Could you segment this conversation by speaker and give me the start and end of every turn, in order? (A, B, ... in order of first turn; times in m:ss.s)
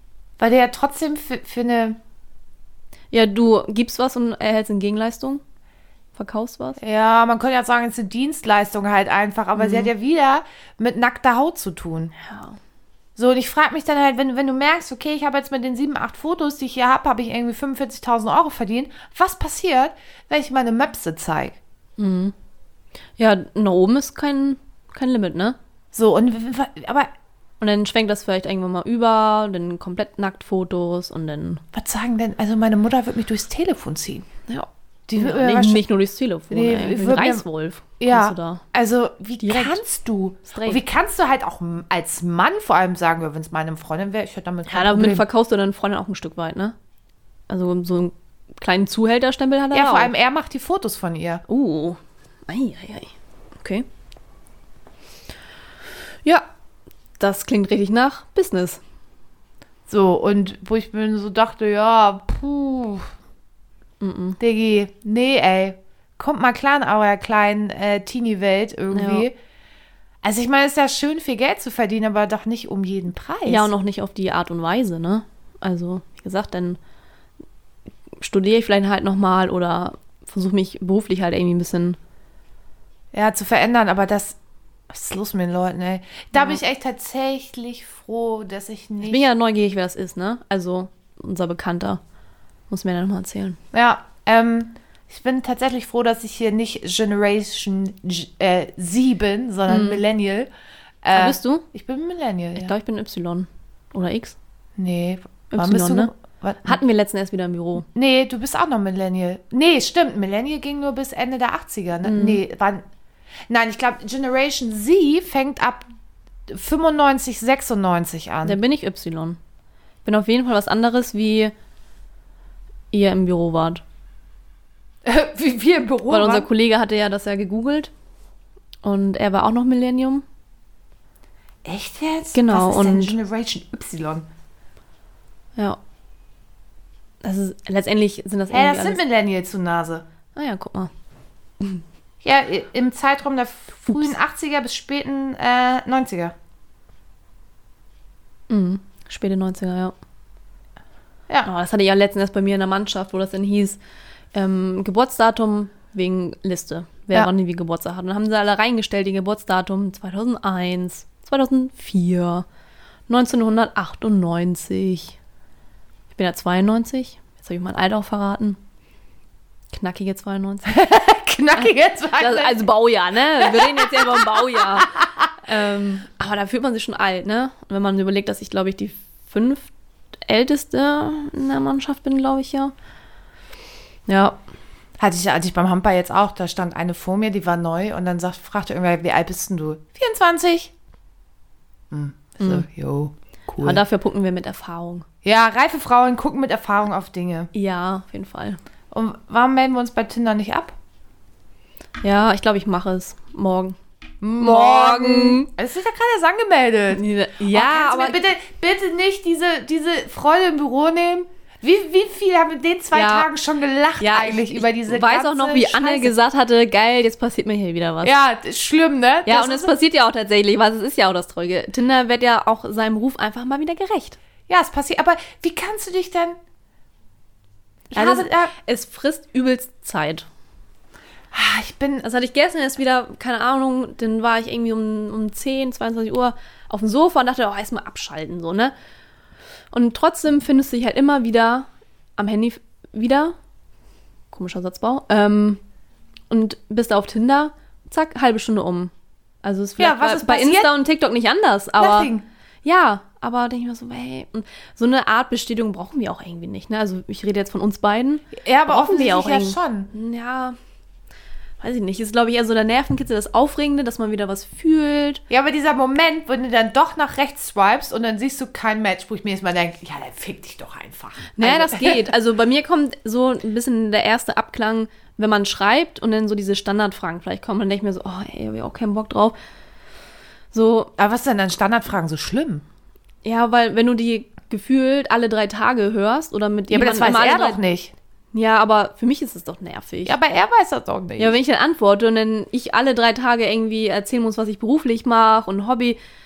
0:00.4-0:02.0 A
0:03.1-0:05.4 B
0:06.2-0:06.8 B
0:06.8-0:12.1 A
0:09.6-0:09.9 B
0:12.2-0:12.6 B
0:13.2-0:21.6 A
0:22.0-0:22.3 B
0:23.2-0:25.6 B
0:25.9-0:27.1 A
0:27.6-0:31.6 B
0:31.7-0:34.3 A
0:34.5-0:38.6 B
0:35.1-0:35.8 A
0:36.5-0:37.5 A
0:38.0-0:45.3 A
0:39.4-0:39.8 B
0:40.5-0:40.8 B
0:44.7-0:46.8 B
0:47.5-0:50.1 B
0:49.7-0:51.4 A
0:51.5-0:53.9 B
0:57.2-0:58.8 B
0:59.9-1:03.1 A
1:04.0-1:04.4 B
1:04.4-1:09.3 A
1:08.9-1:09.3 B
1:10.2-1:13.7 A
1:13.5-1:16.8 B
1:18.2-1:22.0 B
1:23.1-1:24.4 A
1:24.9-1:29.2 A
1:26.4-1:26.6 B
1:29.0-1:32.0 B
1:32.7-1:33.6 B
1:33.7-1:40.5 A
1:39.7-1:40.0 B
1:41.0-1:42.7 A
1:41.1-1:41.6 B
1:42.6-1:44.4 B
1:44.8-1:46.8 A
1:45.5-1:46.1 B
1:46.6-1:47.9 B
1:47.9-1:52.8 A
1:52.0-1:52.4 B
1:53.5-1:55.8 A
1:56.5-1:58.6 A
1:58.4-1:59.4 B
2:00.0-2:01.5 B
2:02.9-2:03.8 B
2:05.0-2:06.5 A
2:06.1-2:07.9 B
2:08.8-2:10.2 B
2:11.6-2:14.3 A
2:12.3-2:13.2 B
2:17.2-2:19.0 B
2:18.5-2:20.0 A
2:20.4-2:20.9 B
2:22.2-2:26.3 A
2:28.5-2:30.0 B
2:31.5-2:33.8 B
2:34.3-2:42.5 B
2:43.1-2:45.2 B
2:46.1-2:48.6 B
2:49.7-2:50.8 B
2:50.7-2:52.6 A
2:51.6-2:54.9 B
2:53.4-2:55.3 A
2:55.4-2:59.7 B
3:00.2-3:02.7 B
3:04.1-3:04.4 B
3:05.0-3:10.7 A
3:11.9-3:13.8 A
3:12.4-3:12.6 B
3:13.6-3:15.1 B
3:15.2-3:17.5 A
3:17.5-3:18.6 B
3:18.9-3:20.8 A
3:22.0-3:23.8 B
3:24.2-3:36.1 A
3:24.4-3:25.5 B
3:26.9-3:28.2 B
3:32.9-3:33.3 B
3:34.0-3:38.2 B
3:38.0-3:39.7 A
3:39.3-3:44.2 B
3:44.5-3:46.4 A
3:47.9-3:48.5 A
3:48.0-3:50.3 B
3:51.3-3:52.0 A
3:52.0-3:58.7 B
3:59.7-4:03.4 B
4:04.3-4:05.6 B
4:06.3-4:12.1 B
4:09.8-4:10.7 A
4:11.8-4:12.3 A
4:12.6-4:20.6 B
4:18.3-4:19.9 A
4:21.6-4:25.2 B
4:25.3-4:32.1 A
4:31.4-4:39.4 B
4:40.5-4:40.9 B
4:41.0-4:42.6 A
4:43.2-4:47.6 B
4:46.7-4:47.9 A
4:48.3-4:50.2 B
4:50.0-4:51.4 A
4:51.2-4:56.0 B